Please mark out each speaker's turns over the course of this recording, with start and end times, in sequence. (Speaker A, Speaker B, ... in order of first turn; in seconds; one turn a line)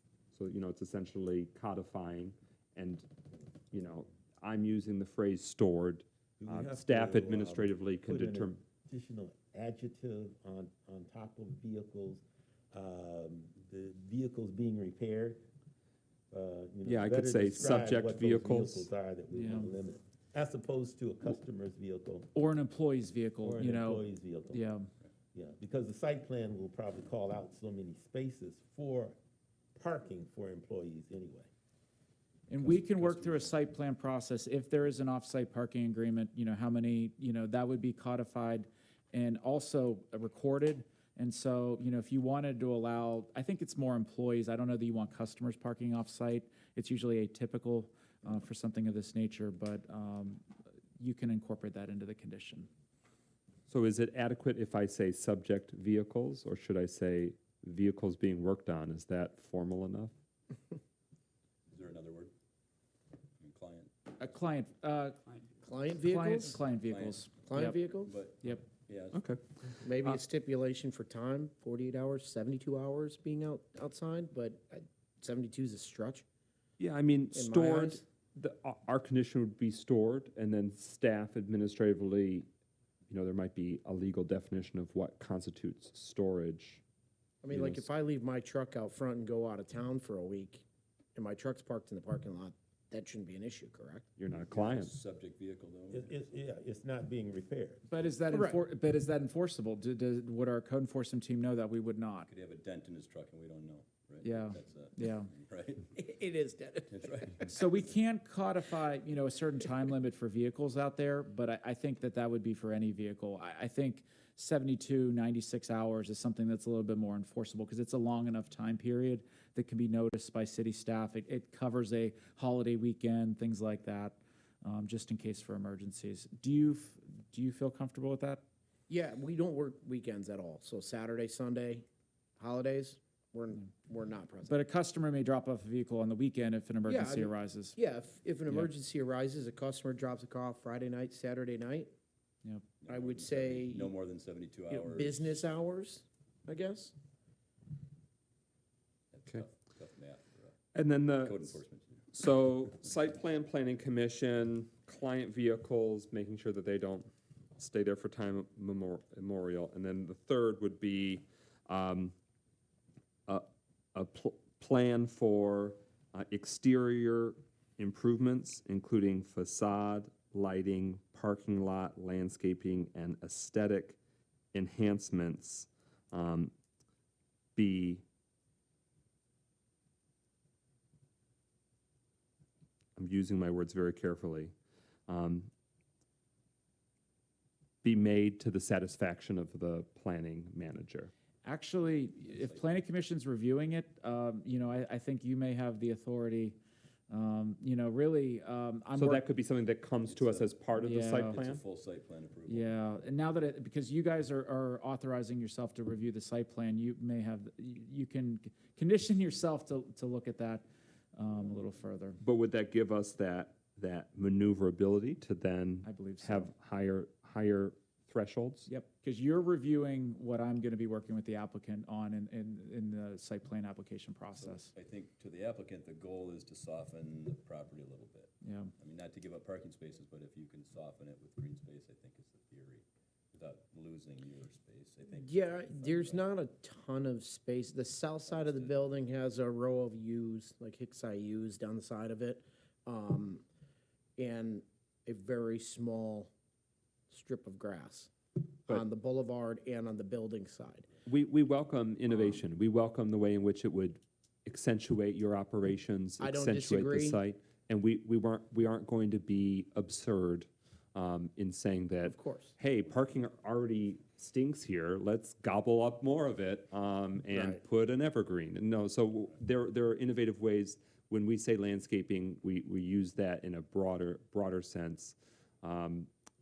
Speaker A: 0.3-3.1
Speaker A: 3.7-8.6
Speaker B: 6.4-15.4
Speaker B: 16.3-22.3
Speaker A: 16.9-18.9
Speaker C: 19.3-19.7
Speaker C: 22.3-24.9
Speaker B: 23.4-24.7
Speaker B: 25.3-29.2
Speaker B: 29.8-31.5
Speaker C: 32.5-50.4
Speaker D: 32.6-33.5
Speaker C: 51.0-52.7
Speaker A: 53.7-60.1
Speaker D: 61.7-62.3
Speaker D: 63.4-63.9
Speaker C: 64.2-65.2
Speaker E: 65.6-66.6
Speaker C: 66.0-67.8
Speaker D: 66.9-67.2
Speaker E: 67.4-68.2
Speaker D: 68.0-69.3
Speaker A: 69.1-69.4
Speaker E: 69.8-76.2
Speaker A: 76.8-82.5
Speaker E: 77.3-78.0
Speaker A: 83.1-86.8
Speaker E: 87.4-90.6
Speaker A: 87.5-87.9
Speaker E: 91.2-94.1
Speaker A: 94.2-94.9
Speaker D: 94.3-96.2
Speaker B: 95.9-97.9
Speaker C: 97.9-102.3
Speaker E: 98.3-98.6
Speaker D: 102.3-105.9
Speaker C: 104.2-105.3
Speaker E: 105.9-107.5
Speaker D: 106.9-107.9
Speaker C: 107.5-128.4
Speaker E: 128.9-131.8
Speaker E: 132.4-134.6
Speaker C: 134.5-137.8
Speaker E: 136.8-141.9
Speaker D: 142.8-145.5
Speaker E: 142.9-143.9
Speaker E: 144.7-146.9
Speaker D: 149.1-150.6
Speaker A: 150.7-151.6
Speaker D: 151.2-152.1
Speaker A: 152.1-162.1
Speaker A: 163.3-174.0
Speaker A: 174.5-176.5
Speaker A: 177.6-178.0
Speaker A: 183.0-184.6
Speaker A: 185.1-185.5
Speaker A: 187.8-191.1
Speaker C: 191.4-196.6
Speaker D: 192.2-192.6
Speaker C: 197.1-199.2
Speaker A: 199.0-201.6
Speaker D: 200.1-202.7
Speaker C: 200.7-201.4
Speaker C: 202.5-212.2
Speaker A: 212.2-218.7
Speaker C: 215.8-216.5
Speaker C: 218.7-224.7
Speaker D: 224.4-236.3
Speaker C: 228.4-228.7
Speaker E: 235.1-243.4
Speaker D: 238.3-238.8
Speaker E: 244.2-246.3
Speaker E: 247.1-250.9
Speaker A: 251.1-276.1
Speaker E: 252.1-252.4
Speaker E: 256.2-257.2
Speaker E: 262.1-262.6
Speaker E: 267.3-267.6